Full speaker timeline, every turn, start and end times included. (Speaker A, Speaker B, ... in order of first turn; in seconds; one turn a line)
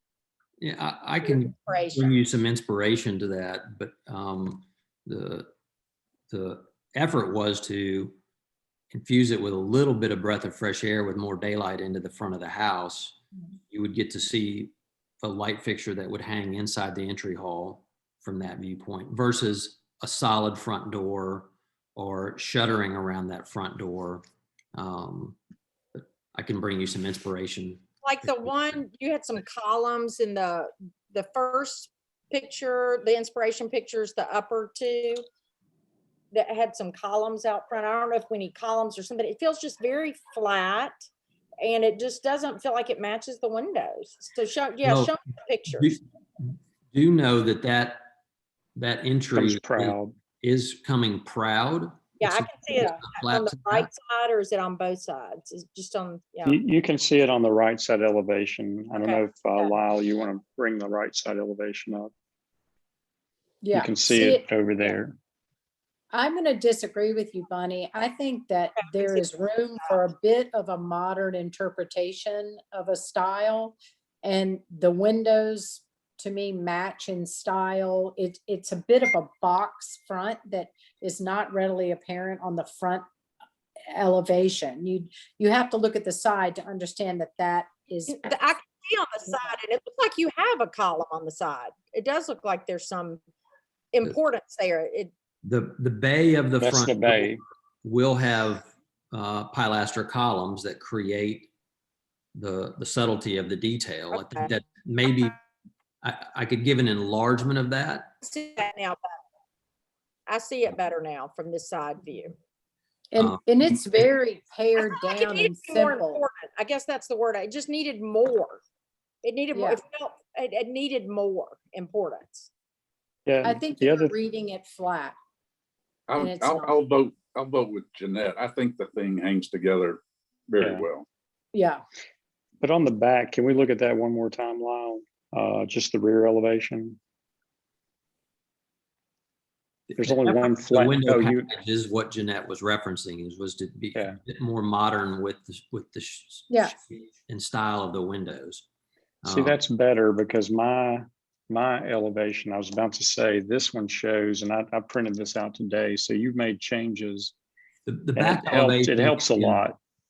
Speaker A: 0.6-5.5
Speaker B: 1.2-2.2
Speaker A: 6.3-8.2
Speaker A: 8.9-13.2
Speaker A: 13.7-24.2
Speaker A: 24.8-25.4
Speaker A: 25.9-27.9
Speaker B: 28.0-35.2
Speaker B: 36.3-41.0
Speaker B: 41.6-46.0
Speaker A: 44.8-45.1
Speaker A: 45.8-48.1
Speaker A: 48.8-53.9
Speaker C: 49.4-50.1
Speaker B: 52.2-56.6
Speaker C: 56.5-62.1
Speaker B: 59.0-59.7
Speaker D: 63.6-64.4
Speaker C: 63.7-65.2
Speaker D: 66.1-83.0
Speaker B: 68.8-69.3
Speaker D: 83.9-88.3
Speaker B: 88.1-93.2
Speaker B: 93.9-95.1
Speaker A: 95.4-101.5
Speaker C: 96.6-97.4
Speaker A: 102.3-105.4
Speaker B: 104.1-104.5
Speaker A: 106.0-108.1
Speaker B: 108.2-109.2
Speaker B: 110.3-112.3
Speaker D: 113.1-116.2
Speaker B: 114.8-118.6
Speaker B: 119.2-122.5
Speaker D: 119.5-119.8
Speaker C: 123.3-124.1
Speaker D: 123.4-125.2
Speaker E: 126.1-131.1
Speaker D: 126.2-126.8
Speaker C: 130.6-130.8
Speaker D: 131.5-131.8
Speaker C: 132.6-137.0
Speaker A: 139.9-148.7
Speaker C: 140.0-141.5
Speaker D: 146.5-146.8
Speaker A: 149.2-149.6
Speaker C: 149.2-157.3
Speaker A: 157.9-159.7
Speaker C: 158.2-159.8